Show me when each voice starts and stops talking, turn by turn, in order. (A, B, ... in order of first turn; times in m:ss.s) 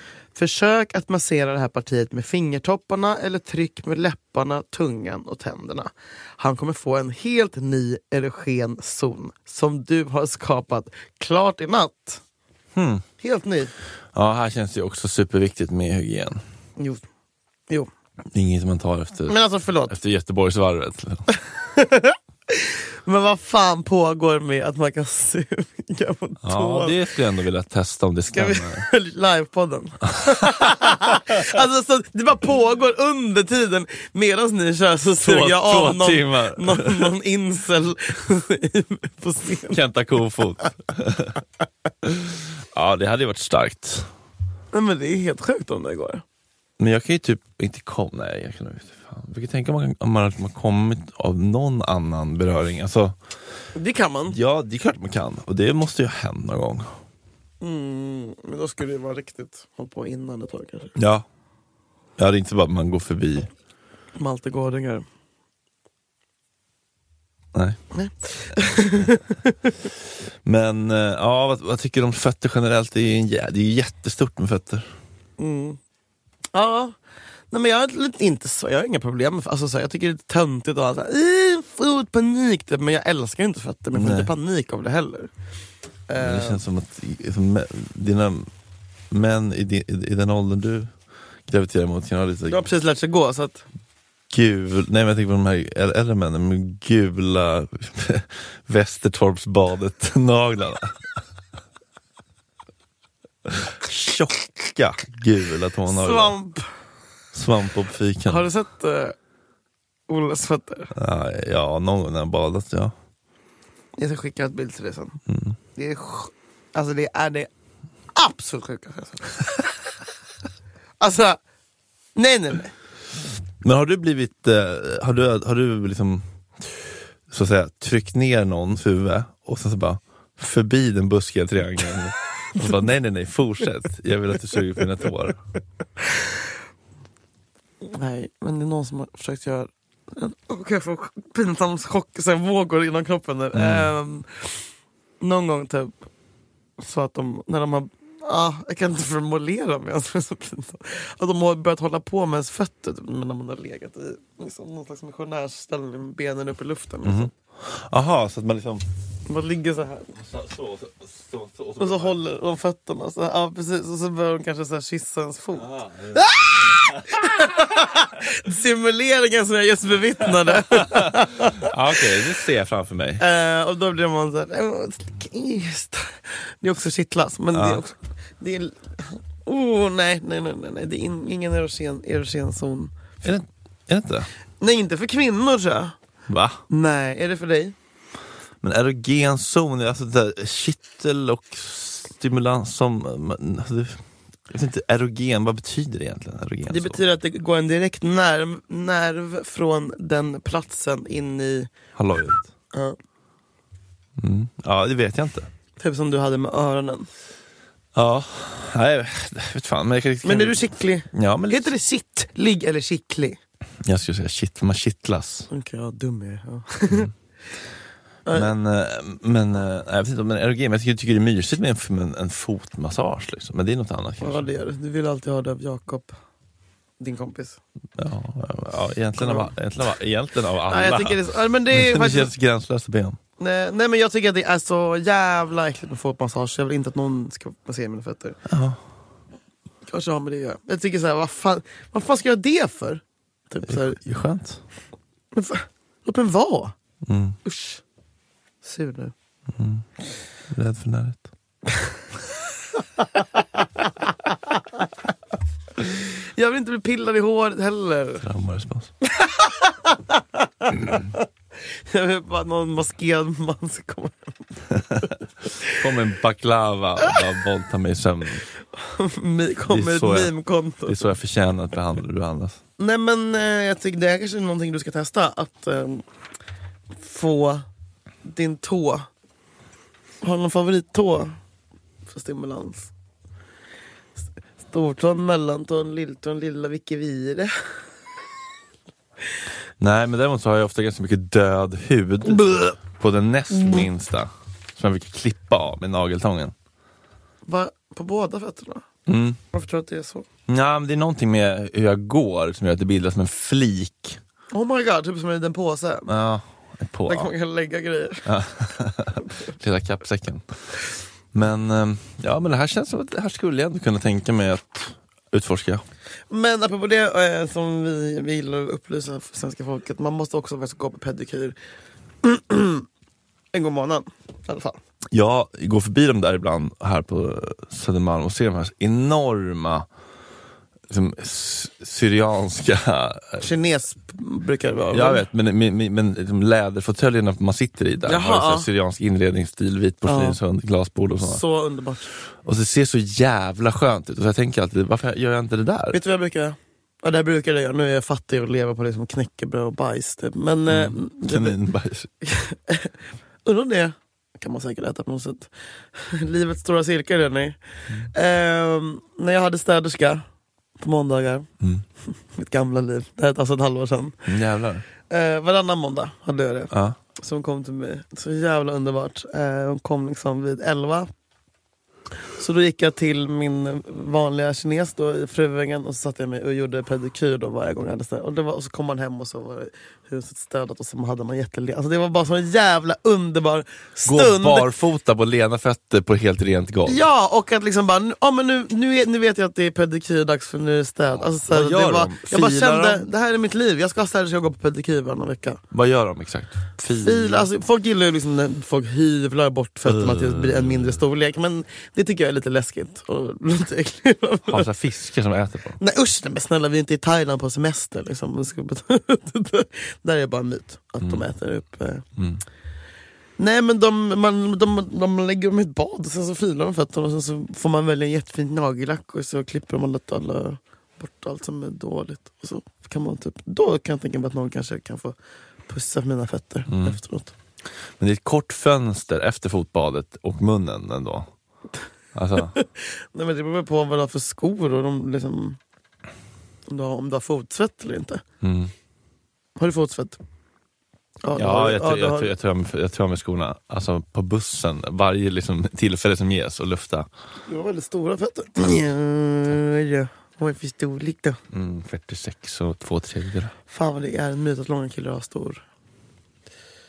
0:00.3-0:12.2 A
0:12.7-0:13.0 B
0:13.2-0:13.7 A
0:14.1-0:16.4 B
0:16.8-0:17.0 A
0:18.3-0:21.2 B
0:19.3-0:19.9 A
0:21.3-0:27.0 A
0:26.4-0:28.8 B
0:28.3-0:39.8 A
0:30.2-0:31.3 B
0:35.2-0:37.1 B
0:39.7-0:41.4 B
0:42.0-0:44.1 B
0:44.7-0:46.2 A
0:46.8-0:53.2 B
0:53.7-0:54.4 A
0:54.3-0:57.0 B
0:57.6-1:01.0 A
1:01.0-1:01.2 B
1:02.2-1:03.5 B
1:04.2-1:05.0 A
1:07.9-1:09.7 A
1:10.4-1:14.9 B
1:15.4-1:15.8 A
1:16.5-1:17.0 A
1:17.5-1:25.3 A
1:23.9-1:24.3 B
1:26.1-1:26.6 A
1:26.2-1:28.5 B
1:29.1-1:30.9 B
1:31.5-1:32.7 B
1:32.5-1:33.6 A
1:34.3-1:41.0 B
1:43.4-1:46.3 B
1:45.9-1:46.7 A
1:47.3-1:48.5 B
1:48.3-1:49.2 A
1:50.1-1:50.9 A
1:51.0-1:52.9 B
1:54.0-1:55.2 A
1:55.3-1:55.6 B
1:55.7-1:57.5 A
1:58.1-1:59.8 A
2:01.0-2:01.4 A
2:02.2-2:02.7 A
2:03.6-2:15.4 B
2:17.8-2:24.5 A
2:23.5-2:23.9 B
2:25.2-2:26.0 A
2:26.8-2:37.3 A
2:37.0-2:38.8 B
2:39.3-2:40.1 A
2:40.2-2:42.2 B
2:41.8-2:51.7 A
2:45.7-2:46.2 B
2:50.5-2:53.2 B
2:53.2-3:02.9 A
2:57.5-2:57.8 B
3:03.2-3:04.3 B
3:04.6-3:06.0 A
3:06.3-3:06.6 B
3:06.7-3:07.7 A
3:08.6-3:17.0 B
3:16.7-3:21.7 A
3:22.0-3:22.5 B
3:24.2-3:25.5 B
3:25.8-3:27.1 A
3:27.9-3:31.7 B
3:30.2-3:33.4 A
3:33.8-3:35.5 B
3:35.5-3:37.1 A
3:38.3-3:38.5 A
3:38.3-3:44.5 B
3:44.2-3:46.1 A
3:47.0-3:47.6 A
3:48.0-3:53.2 B
3:49.2-3:49.5 A
3:50.7-3:52.3 A
3:53.4-3:58.4 A
3:58.4-3:58.8 B
3:59.9-4:04.0 A
4:03.7-4:04.6 B
4:05.3-4:06.7 A
4:07.0-4:07.4 B
4:07.4-4:07.8 A
4:08.6-4:09.1 A
4:09.5-4:09.8 B
4:10.5-4:11.2 B
4:16.0-4:18.2 A
4:18.2-4:18.9 B
4:19.0-4:21.3 A
4:21.9-4:24.3 A
4:24.8-4:28.4 B
4:28.8-4:31.1 A
4:29.7-4:32.6 B
4:32.8-4:36.0 A
4:37.0-4:37.7 A
4:38.2-4:39.1 A
4:40.2-4:41.4 A
4:42.1-4:42.9 A
4:44.6-4:47.5 A
4:49.8-4:56.5 B
4:57.4-4:58.8 A
4:59.1-4:59.4 B
4:59.5-5:00.3 A
5:00.5-5:04.2 B
5:04.5-5:06.1 A
5:06.1-5:07.3 B
5:07.1-5:08.3 A
5:08.3-5:10.4 B
5:11.3-5:15.8 B
5:16.3-5:21.6 A
5:22.2-5:22.9 A
5:23.5-5:24.8 A
5:25.1-5:29.9 B
5:30.9-5:33.4 B
5:33.4-5:35.3 A
5:34.9-5:41.4 B
5:38.0-5:38.7 A
5:40.0-5:40.4 A
5:41.2-5:42.1 A
5:42.4-5:46.0 B
5:45.9-5:51.6 A
5:50.7-5:52.1 B
5:52.2-6:00.2 A
6:00.8-6:01.5 A
6:02.3-6:04.3 A
6:04.3-6:04.8 B
6:05.1-6:11.1 A
6:06.7-6:07.0 B
6:12.4-6:24.7 A
6:24.0-6:27.0 B
6:26.9-6:35.6 A
6:31.4-6:33.0 B
6:35.7-6:37.5 B
6:37.0-6:44.7 A
6:39.8-6:41.0 B
6:44.5-6:45.8 B
6:45.8-6:52.0 A
6:52.2-6:52.4 B
6:53.4-7:05.2 A
7:05.7-7:07.3 A
7:06.7-7:07.0 B
7:08.0-7:11.3 B
7:12.1-7:12.5 B
7:12.4-7:15.6 A
7:16.7-7:18.2 A
7:18.4-7:18.7 B
7:19.6-7:20.2 A
7:21.2-7:22.3 A
7:21.3-7:27.1 B
7:27.4-7:31.4 A
7:31.5-7:33.5 B
7:33.7-7:35.6 A